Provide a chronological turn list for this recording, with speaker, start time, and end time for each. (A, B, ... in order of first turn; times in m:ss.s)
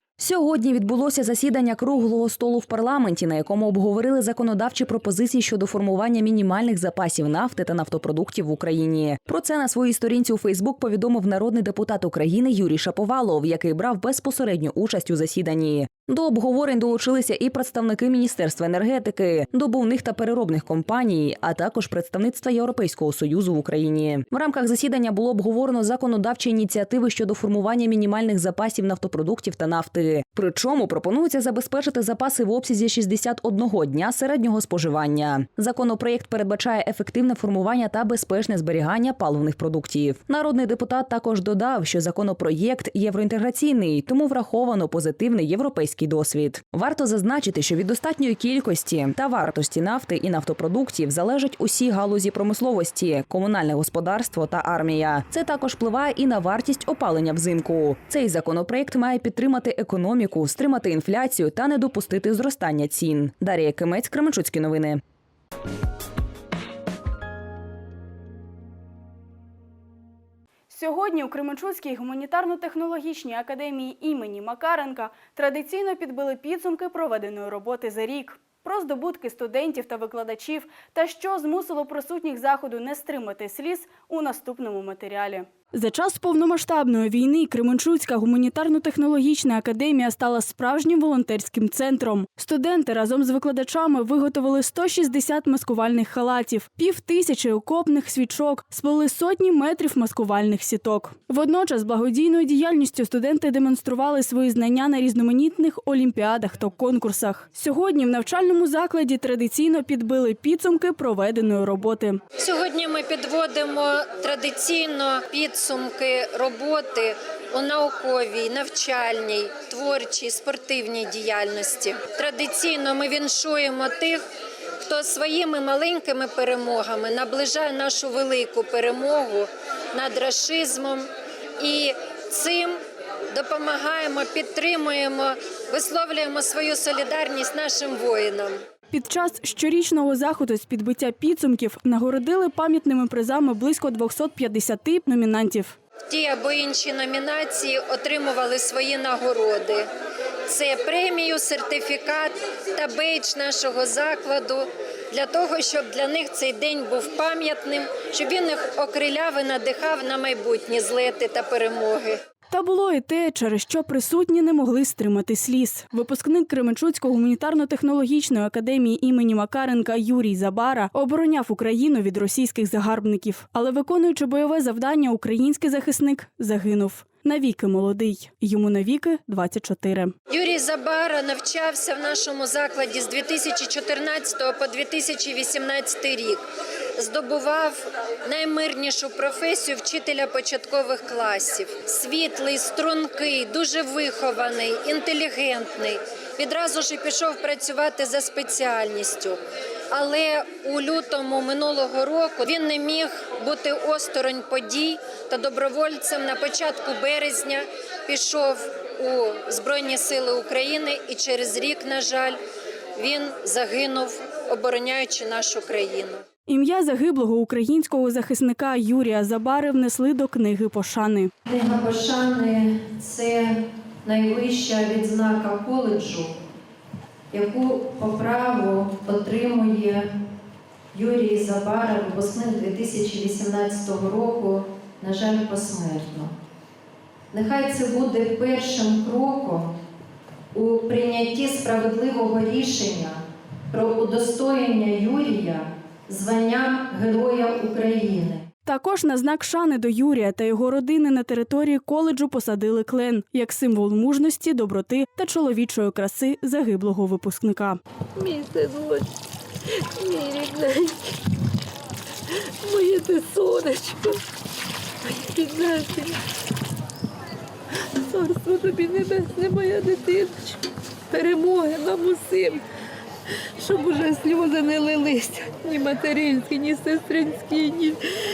0:00.2-1:05.0 A
1:10.7-1:52.2 B
1:52.4-2:04.2 C
2:04.8-2:11.1 C
2:11.6-2:12.8 C
2:13.3-2:18.6 C
2:18.9-2:25.8 B
2:26.1-2:29.9 C
2:30.5-2:42.2 C
2:42.5-3:00.1 B
3:00.3-3:06.4 C
3:07.0-3:19.4 C
3:19.9-3:32.4 C
3:33.0-3:36.2 C
3:36.5-3:41.3 B
3:41.5-3:43.6 D
3:44.1-3:46.3 D
3:47.3-3:50.0 D
3:51.0-3:54.3 D
3:55.0-3:56.3 D
3:57.4-3:59.6 D
4:00.6-4:03.1 D
4:03.7-4:08.4 D
4:08.6-4:17.8 B
4:18.2-4:19.1 E
4:20.0-4:21.0 E
4:22.6-4:24.2 E
4:25.2-4:26.2 E
4:28.0-4:30.6 E
4:31.1-4:32.6 E
4:33.6-4:38.0 E